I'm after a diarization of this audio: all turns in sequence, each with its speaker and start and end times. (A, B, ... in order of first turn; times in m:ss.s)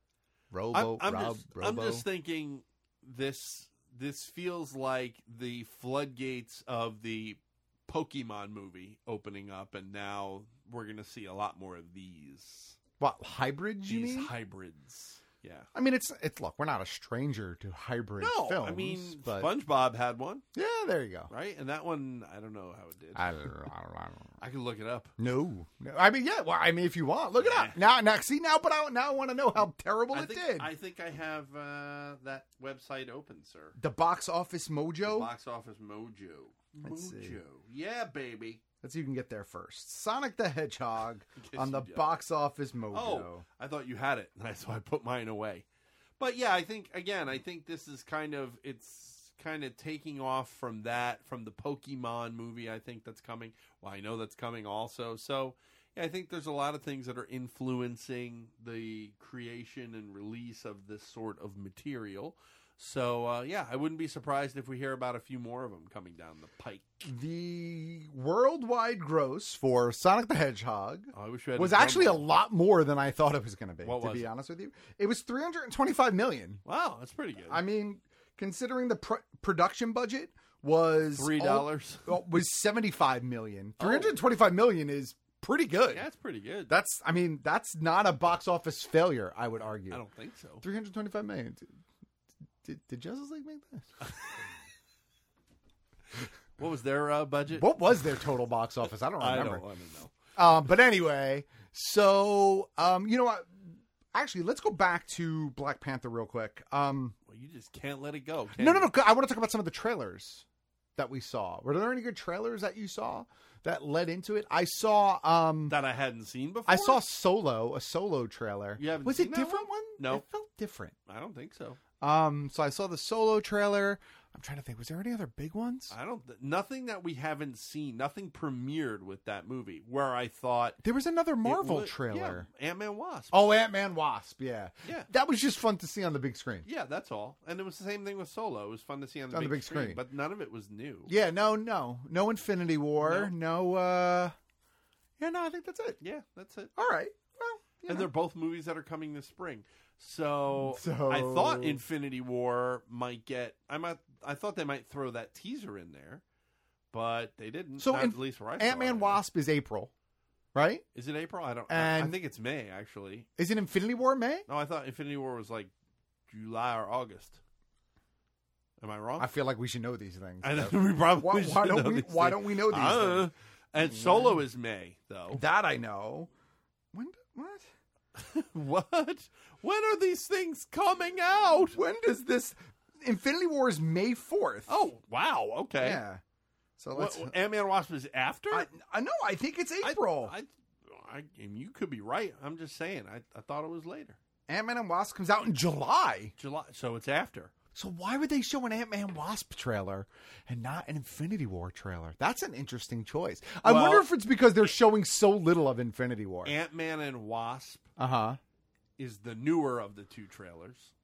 0:00.5-0:02.1 A
0:00.7-0:12.8 B
0:13.0-0:14.3 A
0:13.8-0:15.7 B
0:15.7-0:19.5 A
0:18.2-0:20.4 B
0:20.6-0:21.3 A
0:21.3-0:23.3 B
0:23.2-0:24.3 A
0:24.4-0:25.1 B
0:25.2-0:30.7 A
0:27.4-0:27.8 B
0:30.1-0:33.8 B
0:33.8-0:35.3 A
0:35.0-0:38.6 B
0:36.8-0:37.4 A
0:38.8-0:43.4 A
0:41.4-0:42.2 B
0:42.9-0:45.7 B
0:46.2-1:06.9 B
1:07.0-1:16.6 A
1:11.1-1:12.2 B
1:13.8-1:14.3 B
1:16.7-1:17.6 B
1:17.5-1:26.0 A
1:21.2-1:22.1 B
1:23.8-1:24.2 B
1:25.9-1:26.8 B
1:26.7-1:30.0 A
1:29.9-1:30.6 B
1:30.6-1:31.7 A
1:32.6-1:34.0 A
1:36.6-1:37.7 B
1:37.5-1:39.6 A
1:39.2-1:40.1 B
1:40.4-1:47.2 A
1:47.3-1:48.9 B
1:48.6-1:50.4 A
1:51.0-1:55.8 A
1:55.7-1:57.0 B
1:56.7-2:01.0 A
1:58.8-2:00.2 B
2:01.1-2:01.8 B
2:02.0-2:06.0 A
2:05.9-2:10.8 B
2:10.8-2:12.5 A
2:11.4-2:13.4 B
2:13.3-2:16.7 A
2:16.6-2:21.1 B
2:19.3-2:20.0 A
2:21.1-2:24.4 A
2:23.0-2:23.3 B
2:25.2-2:26.0 A
2:26.0-2:26.7 B
2:26.8-2:28.1 A
2:27.9-2:36.2 B
2:30.6-2:31.8 A
2:36.9-2:39.2 B
2:37.8-2:39.9 A
2:40.6-2:40.8 A
2:41.0-2:43.3 B
2:41.7-2:42.2 A
2:43.4-2:44.5 A
2:44.5-2:45.7 B
2:46.3-2:47.4 B
2:48.8-2:49.3 B
2:49.2-2:54.4 A
2:50.4-2:55.4 B
2:55.3-2:56.3 A
2:56.9-2:57.7 A
2:58.2-3:01.8 B
3:01.7-3:04.8 A
3:04.7-3:06.0 B
3:05.8-3:06.2 A
3:06.8-3:07.3 A
3:06.9-3:08.7 B
3:08.5-3:10.4 A
3:09.8-3:14.2 B
3:14.5-3:16.3 A
3:16.4-3:17.5 B
3:17.7-3:26.5 A
3:23.6-3:24.1 B
3:26.4-3:27.9 B
3:28.0-3:28.4 A
3:29.0-3:30.9 B